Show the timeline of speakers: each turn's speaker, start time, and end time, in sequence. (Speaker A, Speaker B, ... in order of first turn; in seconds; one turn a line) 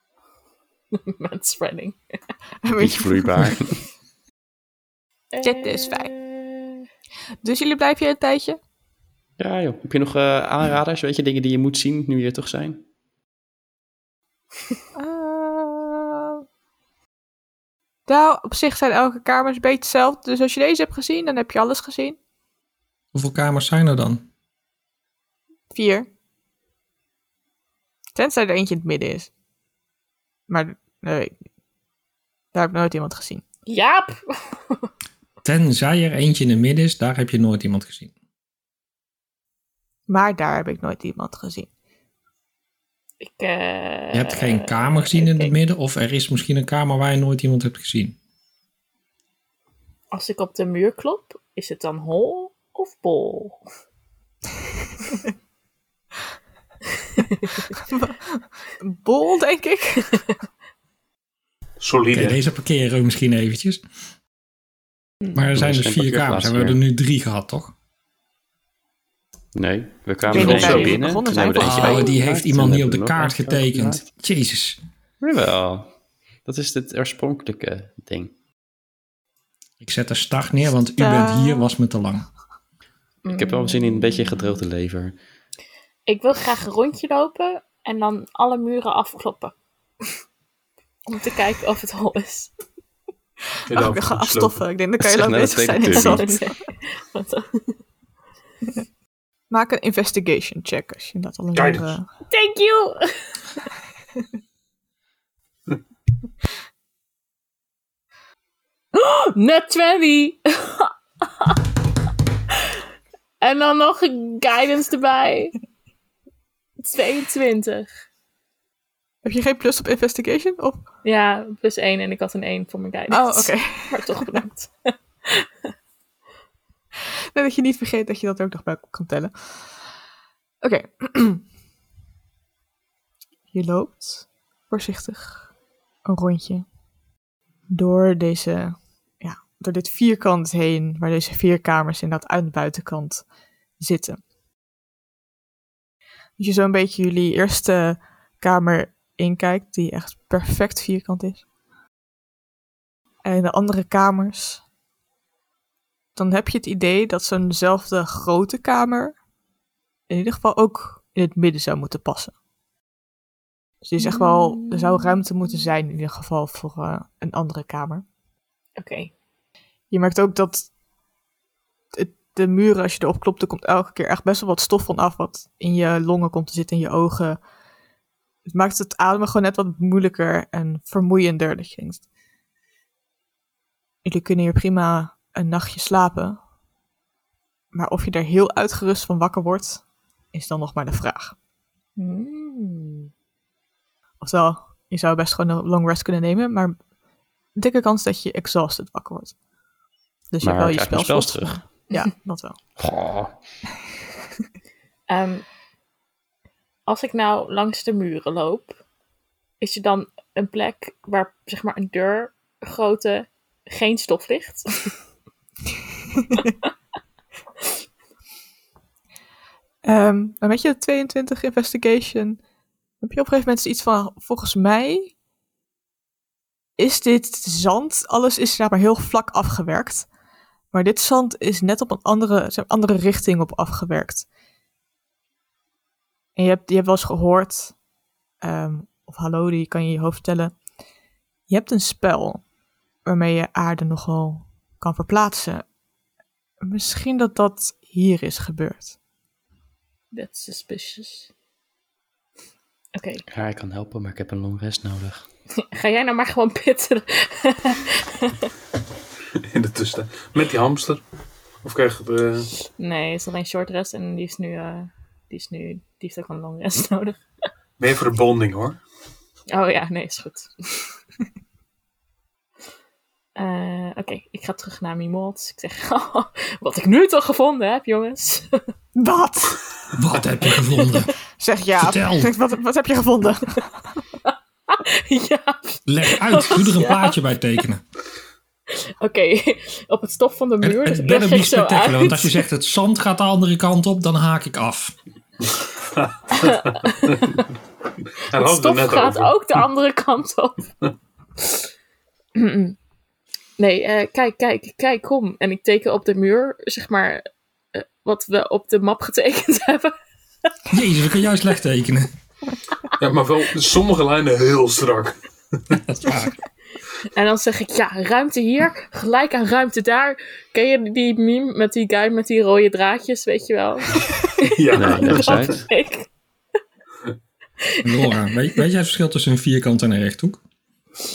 Speaker A: 0.9-2.0
Speaker B: 2.6-3.5
Speaker C: 2.8-3.8
Speaker A: 5.3-6.8
Speaker B: 5.4-6.1
Speaker B: 7.4-8.6
Speaker C: 9.4-12.8
Speaker B: 14.9-16.4
Speaker B: 18.1-22.2
Speaker D: 23.1-24.2
Speaker B: 25.7-26.1
Speaker B: 28.1-29.3
Speaker B: 30.5-31.4
Speaker B: 32.5-33.4
Speaker A: 33.7-34.9
Speaker D: 35.4-38.1
Speaker B: 40.1-41.7
Speaker A: 43.2-45.5
Speaker D: 44.1-48.2
Speaker A: 50.1-53.6
Speaker B: 57.9-60.2
Speaker E: 61.8-62.4
Speaker D: 62.1-63.8
Speaker D: 65.3-67.7
Speaker C: 65.5-66.8
Speaker C: 69.5-74.0
Speaker E: 70.2-71.0
Speaker B: 70.3-72.1
Speaker D: 71.6-74.8
Speaker C: 75.2-75.9
Speaker C: 76.4-78.3
Speaker D: 79.8-82.3
Speaker B: 81.0-81.7
Speaker A: 83.2-84.6
Speaker C: 83.3-85.2
Speaker A: 86.1-89.5
Speaker A: 91.1-92.5
Speaker E: 93.7-94.6
Speaker B: 93.7-96.5
Speaker C: 95.0-96.3
Speaker A: 95.8-97.8
Speaker B: 99.5-102.0
Speaker E: 101.5-102.0
Speaker A: 102.3-103.4
Speaker A: 108.9-111.6
Speaker A: 113.4-115.5
Speaker A: 116.8-117.9
Speaker B: 119.2-120.8
Speaker A: 121.0-125.5
Speaker B: 123.1-124.4
Speaker B: 127.3-129.3
Speaker B: 130.6-131.4
Speaker B: 133.5-135.5
Speaker B: 136.1-136.7
Speaker B: 137.7-143.2
Speaker B: 143.8-144.2
Speaker B: 146.4-151.4
Speaker B: 153.2-154.6
Speaker B: 156.2-159.1
Speaker B: 160.1-162.3
Speaker B: 163.8-168.0
Speaker A: 164.0-165.2
Speaker A: 168.8-169.1
Speaker B: 169.9-170.7
Speaker B: 171.9-177.4
Speaker B: 178.4-182.0
Speaker B: 184.0-186.4
Speaker B: 187.7-191.3
Speaker A: 192.0-193.1
Speaker B: 194.2-196.8
Speaker B: 197.6-199.3
Speaker B: 200.3-202.6
Speaker C: 200.4-201.6
Speaker C: 202.8-203.3
Speaker A: 205.1-205.4
Speaker A: 206.9-208.7
Speaker A: 209.6-214.9
Speaker B: 219.8-222.4
Speaker B: 223.0-225.1
Speaker B: 226.8-230.1
Speaker B: 230.7-234.3
Speaker B: 236.3-237.7
Speaker B: 238.4-240.5
Speaker B: 241.5-242.4
Speaker B: 243.1-245.6
Speaker B: 246.6-248.9
Speaker A: 250.1-251.3
Speaker A: 252.9-253.2
Speaker C: 253.3-255.2
Speaker A: 255.6-258.5
Speaker E: 259.5-261.0
Speaker E: 261.6-262.5
Speaker A: 262.8-267.2
Speaker E: 267.8-268.8
Speaker A: 269.5-270.9
Speaker A: 273.4-278.6
Speaker B: 278.9-279.6
Speaker D: 279.9-281.1
Speaker B: 281.4-283.8
Speaker D: 281.8-282.3
Speaker A: 284.7-287.1
Speaker D: 285.9-287.8
Speaker A: 288.7-292.4
Speaker D: 290.6-294.9
Speaker E: 295.9-296.4
Speaker A: 296.3-297.2
Speaker E: 297.1-297.4
Speaker E: 298.3-299.4
Speaker A: 298.3-300.7
Speaker A: 302.4-302.8
Speaker A: 303.6-309.9
Speaker D: 310.7-312.1
Speaker E: 313.0-315.8
Speaker D: 315.8-316.4
Speaker A: 317.0-326.1
Speaker E: 324.4-325.6
Speaker C: 324.7-325.6
Speaker A: 327.6-328.6
Speaker D: 327.8-330.4